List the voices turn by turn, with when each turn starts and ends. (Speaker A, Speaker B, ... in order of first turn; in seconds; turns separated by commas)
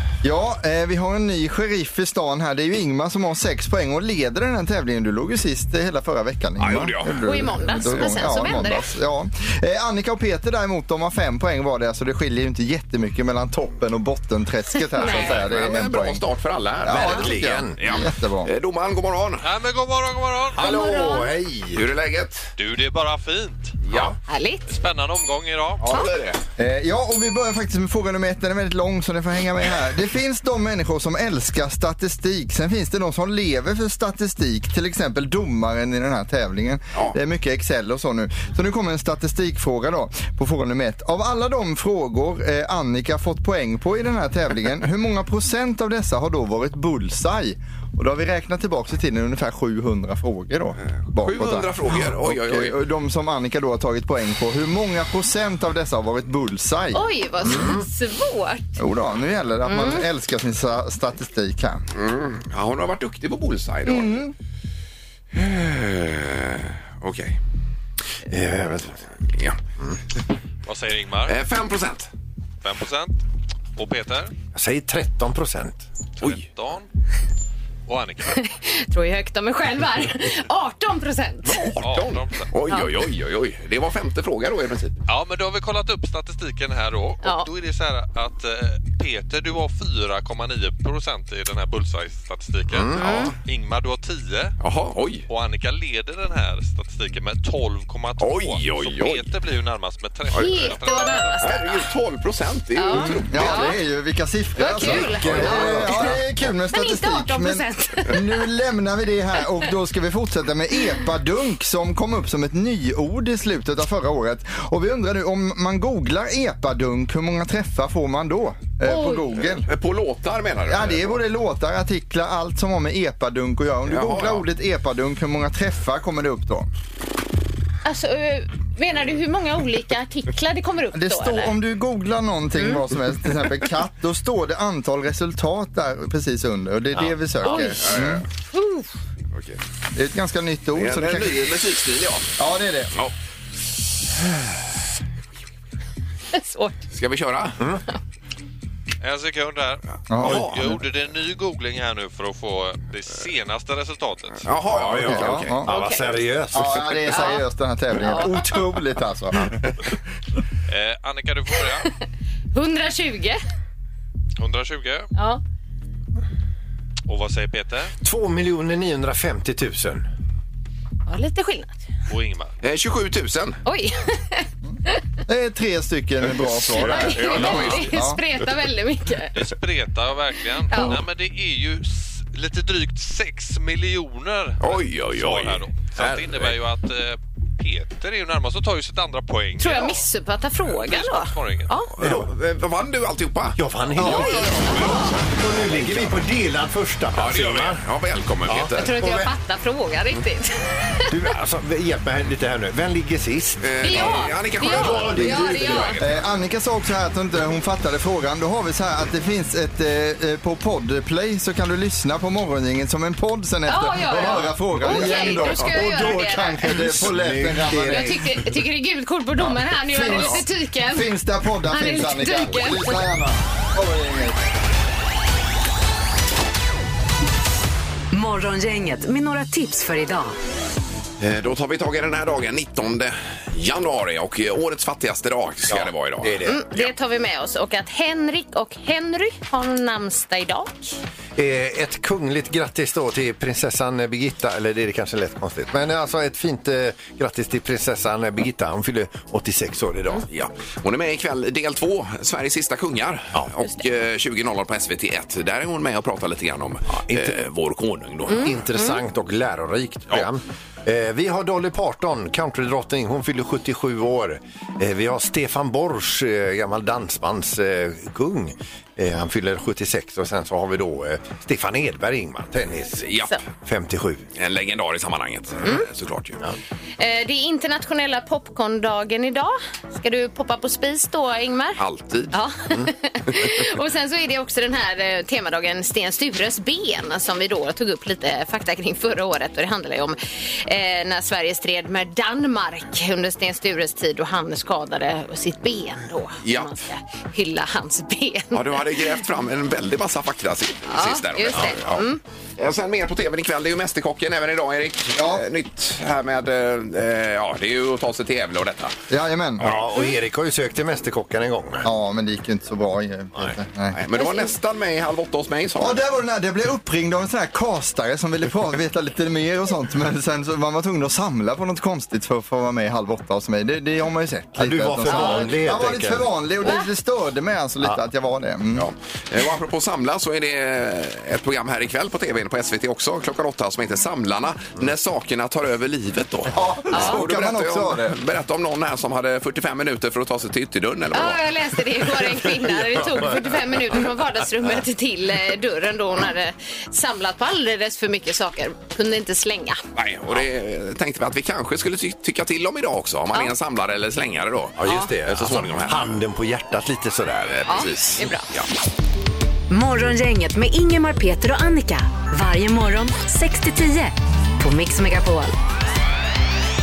Speaker A: 0.2-16.2, Speaker B: 6.6-7.3, Speaker C: 7.2-8.8, Speaker C: 14.9-15.4, Speaker B: 15.1-19.5, Speaker A: 16.9-18.5, Speaker D: 16.9-17.8, Speaker E: 19.4-20.8, Speaker D: 20.6-21.9, Speaker C: 20.6-21.3, Speaker B: 21.8-22.5, Speaker E: 22.6-23.8, Speaker B: 23.9-24.1, Speaker C: 24.3-24.7, Speaker E: 24.7-26.1, Speaker B: 25.8-26.4, Speaker A: 26.6-57.7, Speaker B: 50.9-52.8, Speaker C: 56.9-58.8, Speaker A: 58.8-61.8, Speaker C: 59.7-60.0, Speaker B: 61.9-64.3, Speaker A: 63.9-64.3, Speaker B: 65.3-67.4, Speaker D: 68.3-69.1, Speaker B: 69.3-69.6, Speaker E: 70.7-71.4, Speaker B: 71.3-72.1, Speaker E: 72.6-73.2, Speaker E: 73.8-74.3, Speaker D: 74.5-75.8, Speaker E: 76.2-76.9, Speaker E: 77.9-78.4, Speaker C: 78.3-81.6, Speaker B: 81.5-84.9, Speaker E: 81.8-82.5, Speaker E: 85.1-94.6, Speaker C: 87.2-87.5, Speaker D: 92.7-93.0, Speaker C: 93.0-93.3, Speaker B: 93.0-93.3, Speaker B: 94.6-95.3, Speaker E: 95.3-101.4, Speaker B: 98.2-99.3, Speaker C: 100.3-101.8, Speaker B: 100.3-100.7, Speaker B: 101.4-103.2, Speaker C: 102.8-103.8, Speaker A: 102.9-119.7, Speaker C: 104.6-106.2, Speaker D: 104.7-106.2, Speaker C: 106.7-108.2, Speaker C: 118.9-119.3, Speaker B: 119.6-121.2, Speaker A: 120.7-126.7, Speaker B: 123.9-124.5, Speaker C: 127.8-131.5, Speaker A: 130.9-138.2, Speaker C: 137.4-137.8, Speaker B: 137.6-138.2, Speaker C: 138.5-138.9, Speaker B: 139.3-139.6, Speaker A: 139.9-141.7, Speaker B: 140.8-142.3, Speaker A: 142.4-142.9, Speaker C: 146.3-146.8, Speaker B: 146.9-147.6, Speaker D: 147.6-147.8, Speaker E: 149.0-154.5, Speaker A: 150.1-150.5, Speaker B: 150.2-150.5, Speaker B: 154.4-155.6, Speaker D: 154.7-157.1, Speaker A: 155.1-155.8, Speaker C: 155.7-156.1, Speaker A: 156.5-159.6, Speaker C: 157.1-157.4, Speaker C: 158.0-158.4, Speaker E: 160.7-161.9, Speaker C: 162.5-163.4, Speaker E: 164.4-165.1, Speaker C: 165.2-165.4, Speaker E: 167.1-167.9, Speaker D: 168.0-170.1, Speaker C: 171.1-171.8, Speaker E: 172.1-172.6, Speaker B: 172.6-173.6, Speaker C: 173.7-175.0, Speaker A: 175.3-178.2, Speaker C: 176.8-179.3, Speaker E: 176.9-177.9, Speaker B: 177.3-177.9, Speaker E: 179.3-190.0, Speaker C: 180.7-181.0, Speaker B: 184.6-186.6, Speaker C: 189.6-191.9, Speaker E: 190.7-191.8, Speaker B: 192.0-196.2, Speaker D: 192.0-192.3, Speaker D: 193.6-197.8, Speaker C: 194.0-195.1, Speaker B: 197.1-198.9, Speaker D: 198.5-199.3, Speaker C: 198.8-201.1, Speaker D: 201.1-206.0, Speaker B: 203.6-206.2, Speaker C: 203.8-206.0, Speaker A: 206.0-218.2, Speaker C: 213.7-216.8, Speaker D: 214.8-215.2, Speaker D: 216.7-218.2, Speaker C: 217.9-221.1, Speaker A: 219.9-224.4, Speaker C: 221.7-223.0, Speaker F: 228.1-230.3, Speaker B: 231.2-236.9, Speaker D: 235.7-236.6, Speaker C: 236.4-241.0, Speaker D: 241.4-250.3, Speaker B: 250.3-258.6, Speaker D: 256.9-257.4, Speaker C: 258.3-259.0, Speaker D: 258.3-274.2, Speaker B: 273.0-273.3, Speaker B: 274.4-276.4, Speaker C: 277.0-299.2, Speaker B: 281.8-282.4, Speaker B: 296.4-296.8, Speaker B: 298.5-302.1, Speaker C: 300.9-302.2, Speaker B: 302.6-308.9, Speaker A: 305.1-305.4, Speaker A: 309.1-309.7, Speaker D: 309.6-311.9, Speaker A: 311.8-314.0, Speaker B: 313.9-316.0, Speaker C: 314.2-314.5, Speaker A: 315.8-328.9, Speaker D: 324.6-326.3, Speaker C: 325.1-325.4, Speaker B: 328.8-341.4, Speaker A: 336.5-338.1, Speaker C: 336.9-337.2, Speaker C: 341.1-349.8, Speaker B: 350.0-356.2, Speaker D: 354.8-357.8, Speaker B: 357.6-358.7, Speaker C: 357.7-358.5, Speaker F: 359.7-365.6